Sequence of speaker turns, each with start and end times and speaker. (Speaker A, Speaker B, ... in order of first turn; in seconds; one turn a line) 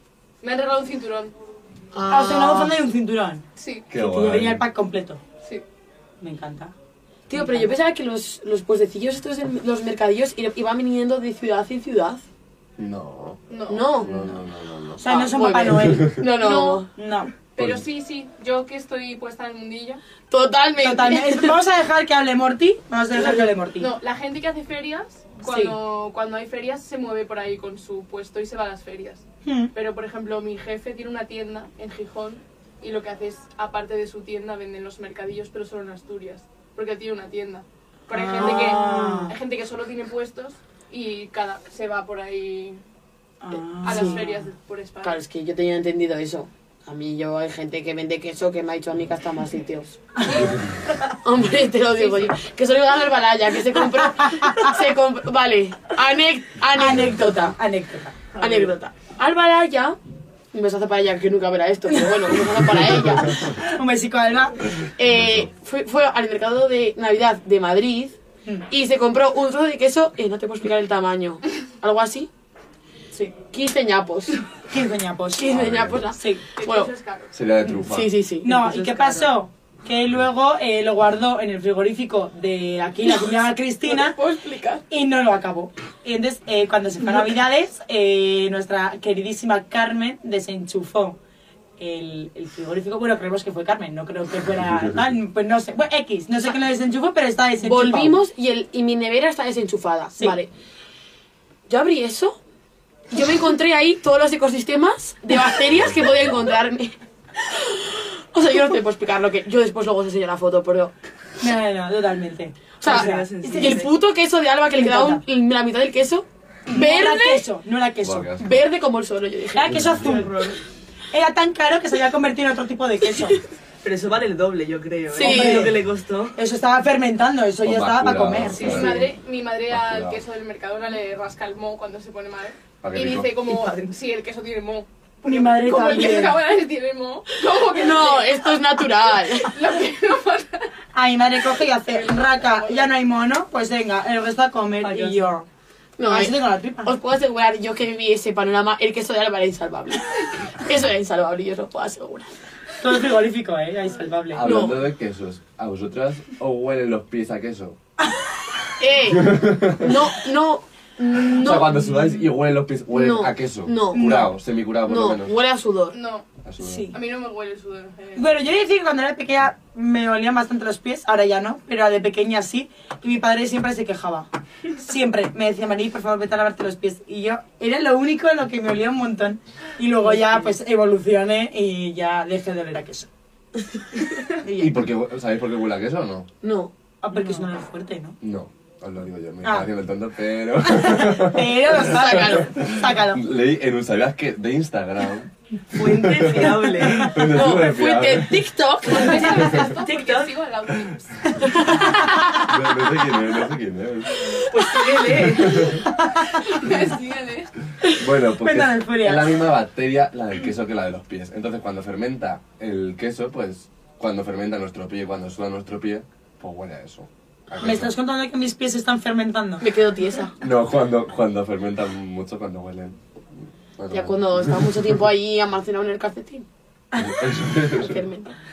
Speaker A: 0.4-1.3
Speaker B: 1.9-2.8
Speaker C: 2.1-5.2
Speaker A: 3.6-3.9
Speaker D: 3.9-4.7
Speaker C: 6.2-6.7
Speaker B: 7.3-12.2
Speaker C: 7.3-7.7
Speaker D: 12.8-13.4
Speaker A: 13.5-14.3
Speaker B: 13.7-14.3
Speaker D: 14.0-15.0
Speaker C: 15.0-16.3
Speaker B: 15.0-16.9
Speaker D: 15.8-16.2
Speaker A: 16.4-16.9
Speaker C: 17.0-17.3
Speaker A: 17.6-20.0
Speaker D: 17.6-17.8
Speaker B: 20.3-21.6
Speaker C: 20.8-23.9
Speaker A: 23.1-42.8
Speaker B: 25.4-25.8
Speaker C: 29.4-29.7
Speaker C: 38.1-39.4
Speaker B: 38.4-39.3
Speaker C: 43.4-44.4
Speaker A: 43.8-45.2
Speaker B: 43.9-44.3
Speaker B: 45.0-50.0
Speaker A: 50.2-50.6
Speaker B: 51.2-57.6
Speaker A: 51.9-52.4
Speaker C: 54.3-54.6
Speaker C: 56.7-58.2
Speaker B: 58.4-60.0
Speaker B: 60.5-63.6
Speaker C: 63.6-64.6
Speaker B: 65.0-68.2
Speaker D: 65.0-65.5
Speaker B: 68.7-72.3
Speaker B: 73.5-74.4
Speaker C: 74.7-75.5
Speaker B: 75.3-76.9
Speaker D: 75.5-76.0
Speaker C: 76.1-76.4
Speaker A: 76.6-77.3
Speaker D: 77.3-78.1
Speaker B: 77.8-78.9
Speaker C: 78.4-84.2
Speaker E: 78.8-79.2
Speaker B: 83.8-84.8
Speaker C: 84.9-91.2
Speaker C: 91.8-98.2
Speaker B: 97.6-100.5
Speaker B: 101.7-102.4
Speaker B: 103.1-110.9
Speaker C: 111.4-113.9
Speaker B: 112.8-117.5
Speaker E: 112.8-113.9
Speaker C: 114.8-115.2
Speaker C: 116.7-118.3
Speaker D: 118.0-118.6
Speaker B: 118.4-120.1
Speaker C: 119.5-120.6
Speaker D: 119.7-120.2
Speaker C: 121.1-123.4
Speaker E: 123.8-126.4
Speaker B: 125.1-125.7
Speaker C: 125.2-125.8
Speaker C: 126.4-128.9
Speaker D: 127.6-129.1
Speaker A: 128.5-138.7
Speaker D: 129.7-130.2
Speaker D: 132.8-133.4
Speaker E: 133.5-133.9
Speaker C: 135.2-136.4
Speaker B: 137.7-139.6
Speaker A: 139.4-140.7
Speaker C: 140.9-145.5
Speaker A: 141.9-142.9
Speaker E: 144.8-145.3
Speaker B: 146.0-152.3
Speaker C: 146.1-146.9
Speaker C: 152.8-154.5
Speaker D: 154.3-157.8
Speaker B: 154.4-154.8
Speaker B: 158.8-161.8
Speaker D: 159.1-160.0
Speaker D: 161.3-165.3
Speaker B: 162.9-164.2
Speaker C: 163.9-164.3
Speaker B: 164.8-166.0
Speaker A: 165.9-168.3
Speaker D: 166.4-166.9
Speaker C: 166.6-167.0
Speaker C: 168.2-183.1
Speaker E: 180.0-180.5
Speaker C: 184.4-184.8
Speaker D: 184.6-186.3
Speaker B: 186.4-186.7
Speaker C: 187.0-188.2
Speaker D: 188.2-198.4
Speaker C: 189.4-189.7
Speaker C: 190.7-193.2
Speaker B: 191.8-192.5
Speaker E: 195.7-197.1
Speaker B: 197.1-199.7
Speaker A: 198.9-201.9
Speaker E: 199.1-200.3
Speaker B: 201.4-202.4
Speaker D: 202.4-204.4
Speaker E: 204.5-205.8
Speaker D: 205.3-205.8
Speaker C: 205.9-206.4
Speaker A: 206.3-207.5
Speaker D: 207.9-217.9
Speaker C: 208.4-209.4
Speaker C: 217.6-219.6
Speaker B: 219.6-220.3
Speaker D: 220.4-223.0
Speaker D: 223.8-224.8
Speaker B: 223.9-226.5
Speaker C: 226.9-227.2
Speaker D: 227.0-227.9
Speaker B: 227.6-228.3